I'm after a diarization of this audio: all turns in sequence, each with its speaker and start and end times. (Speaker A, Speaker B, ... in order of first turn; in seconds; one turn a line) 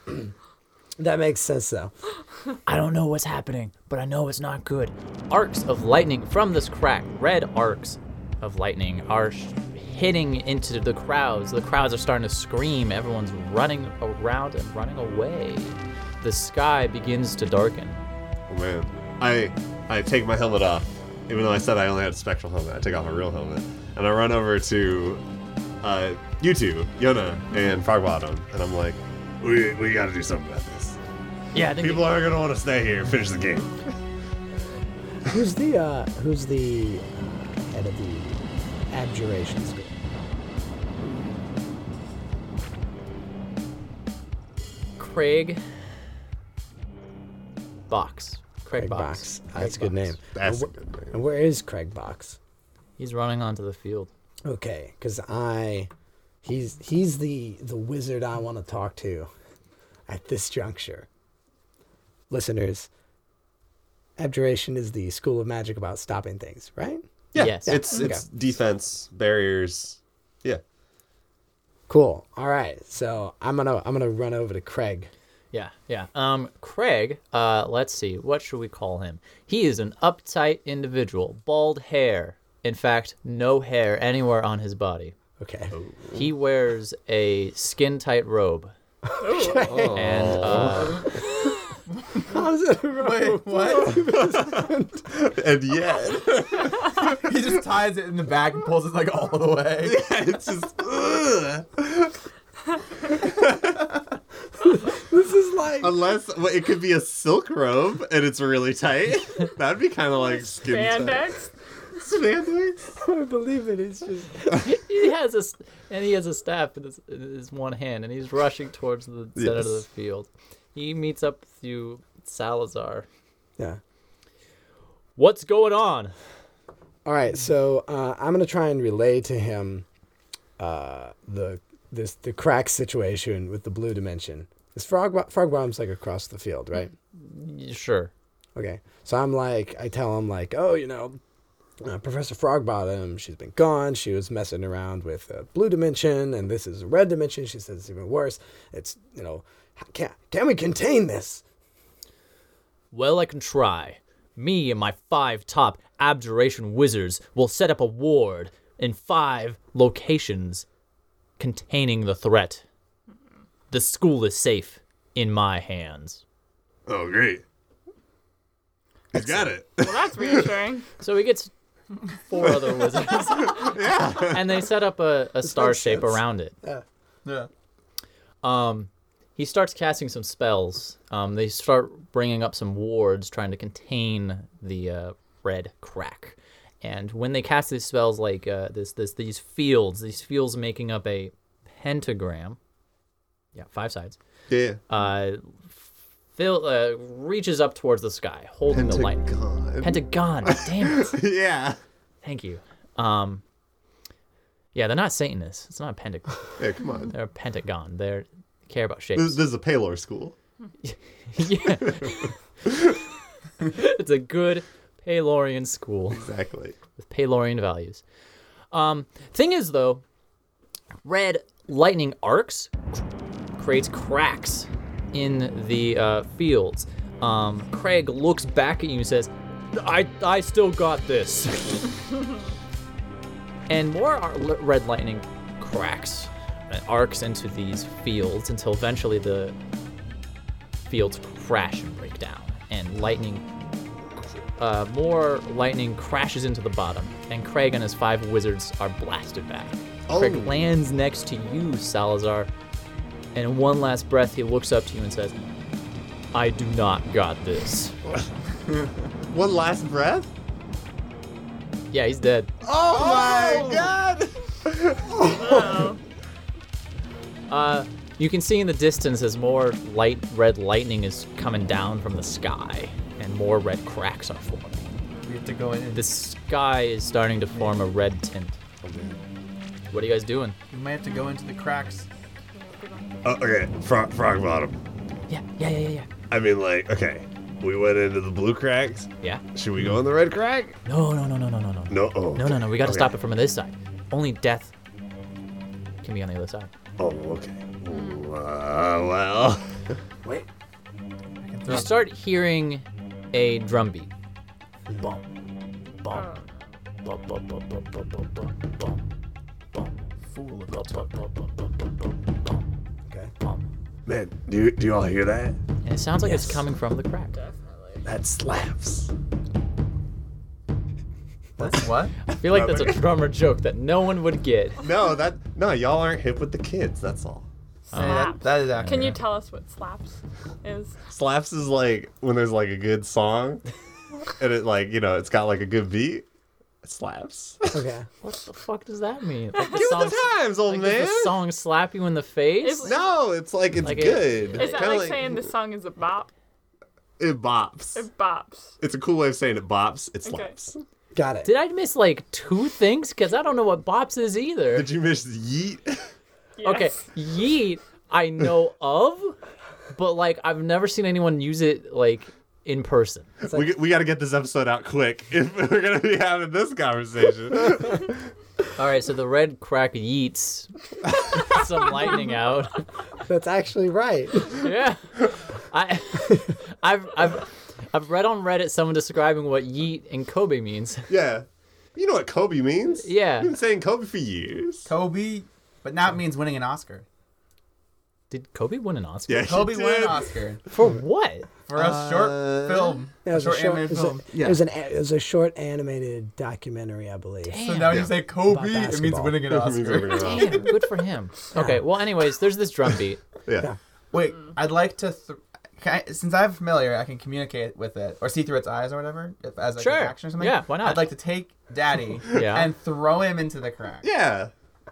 Speaker A: 1.0-1.9
Speaker B: 2.6-18.0
Speaker C: 18.5-25.2
Speaker C: 25.8-31.0
Speaker B: 31.5-32.2
Speaker C: 31.7-33.9
Speaker A: 35.2-40.0
Speaker B: 45.0-45.6
Speaker B: 47.9-50.2
Speaker A: 48.8-52.4
Speaker C: 50.3-51.2
Speaker B: 53.0-54.1
Speaker A: 54.4-55.9
Speaker A: 56.4-59.3
Speaker A: 60.1-61.1
Speaker A: 62.3-62.9
Speaker A: 64.2-68.2
Speaker C: 67.3-70.6
Speaker B: 67.3-67.8
Speaker A: 71.9-75.1
Speaker B: 75.5-85.1
Speaker A: 85.4-85.7
Speaker C: 85.7-86.3
Speaker B: 86.1-88.7
Speaker A: 89.0-90.0
Speaker D: 89.2-89.9
Speaker C: 89.5-91.1
Speaker B: 89.9-91.1
Speaker A: 92.3-95.0
Speaker E: 93.0-94.0
Speaker C: 94.0-97.3
Speaker E: 97.1-100.0
Speaker C: 99.8-102.1
Speaker C: 103.1-103.9
Speaker A: 104.6-105.9
Speaker C: 105.8-111.3
Speaker D: 110.2-111.5
Speaker C: 112.0-112.9
Speaker A: 113.0-114.6
Speaker B: 114.6-123.1
Speaker C: 119.3-119.8
Speaker B: 125.2-126.1
Speaker A: 127.0-129.8
Speaker A: 130.6-136.9
Speaker B: 137.1-138.1
Speaker A: 138.5-141.2
Speaker A: 141.8-151.4
Speaker B: 152.9-160.7
Speaker B: 161.4-162.6
Speaker B: 163.7-166.2
Speaker C: 166.9-167.4
Speaker C: 169.1-170.6
Speaker D: 169.8-170.9
Speaker B: 171.0-171.5
Speaker B: 172.1-176.5
Speaker C: 172.4-174.7
Speaker A: 175.4-176.8
Speaker E: 177.2-177.5
Speaker B: 178.4-192.6
Speaker B: 193.5-194.2
Speaker C: 194.5-194.8
Speaker B: 194.9-195.8
Speaker B: 196.3-199.3
Speaker C: 198.7-201.8
Speaker B: 199.8-201.1
Speaker B: 202.2-203.4
Speaker B: 204.7-209.4
Speaker C: 206.6-207.1
Speaker C: 209.1-210.3
Speaker B: 210.8-212.3
Speaker C: 211.7-212.7
Speaker B: 213.6-216.3
Speaker C: 216.1-216.8
Speaker B: 217.0-218.0
Speaker B: 218.7-220.0
Speaker B: 221.0-222.7
Speaker B: 223.6-231.9
Speaker B: 233.7-239.6
Speaker B: 240.9-243.4
Speaker B: 244.6-252.5
Speaker C: 250.1-250.6
Speaker B: 253.3-255.4
Speaker B: 256.3-257.9
Speaker C: 259.3-260.3
Speaker B: 261.9-262.5
Speaker C: 262.6-266.0
Speaker E: 262.7-263.9
Speaker D: 265.2-266.0
Speaker B: 267.5-274.9
Speaker D: 275.1-275.4
Speaker E: 275.2-276.1
Speaker B: 275.9-278.6
Speaker C: 278.8-279.2
Speaker B: 279.9-280.6
Speaker E: 280.7-282.1
Speaker D: 282.5-283.4
Speaker C: 283.2-284.8
Speaker B: 285.3-286.1
Speaker C: 286.3-290.8
Speaker B: 290.8-294.7
Speaker C: 291.9-293.2
Speaker B: 296.0-296.7
Speaker C: 297.0-299.8
Speaker D: 297.9-298.2
Speaker E: 301.4-302.0
Speaker B: 301.7-304.1
Speaker A: 304.9-305.2
Speaker D: 306.1-306.6
Speaker B: 307.0-309.0
Speaker E: 310.3-311.1
Speaker B: 310.7-312.6
Speaker C: 314.1-315.6
Speaker B: 315.8-317.3
Speaker A: 316.2-316.6
Speaker D: 317.3-318.0
Speaker C: 318.0-319.1
Speaker E: 321.6-322.2
Speaker B: 322.2-324.8
Speaker C: 322.4-323.0
Speaker C: 324.8-327.4
Speaker E: 327.9-329.2
Speaker B: 327.9-329.2
Speaker D: 327.9-331.0
Speaker C: 331.1-333.6
Speaker C: 334.4-336.2
Speaker C: 336.8-337.8
Speaker A: 337.7-338.1
Speaker B: 338.2-342.9
Speaker D: 339.5-340.2
Speaker C: 339.6-341.4
Speaker D: 342.6-343.2
Speaker C: 342.8-345.4
Speaker B: 343.8-345.1
Speaker D: 344.5-346.3
Speaker C: 347.2-348.1
Speaker D: 347.9-348.7
Speaker C: 348.8-350.8
Speaker D: 350.2-350.5
Speaker A: 351.1-351.5
Speaker B: 351.4-354.9
Speaker C: 354.7-356.1
Speaker D: 356.6-357.1
Speaker B: 356.6-359.3
Speaker B: 359.9-363.3
Speaker C: 363.4-368.2
Speaker B: 368.8-372.8
Speaker A: 373.2-374.6
Speaker B: 374.6-381.1
Speaker C: 381.1-384.9
Speaker B: 383.0-383.5
Speaker E: 384.9-387.0
Speaker B: 388.3-389.6
Speaker C: 389.3-390.3
Speaker E: 389.4-390.6
Speaker B: 390.7-391.5
Speaker E: 391.7-394.6
Speaker C: 391.7-392.9
Speaker A: 393.2-397.6
Speaker B: 397.5-398.1
Speaker E: 397.6-400.4
Speaker C: 397.9-398.1
Speaker A: 398.3-399.4
Speaker C: 399.5-400.7
Speaker B: 400.0-403.2
Speaker A: 401.5-401.8
Speaker C: 403.4-403.7
Speaker E: 404.1-414.1
Speaker B: 409.8-411.1
Speaker B: 412.3-412.7
Speaker C: 414.0-414.5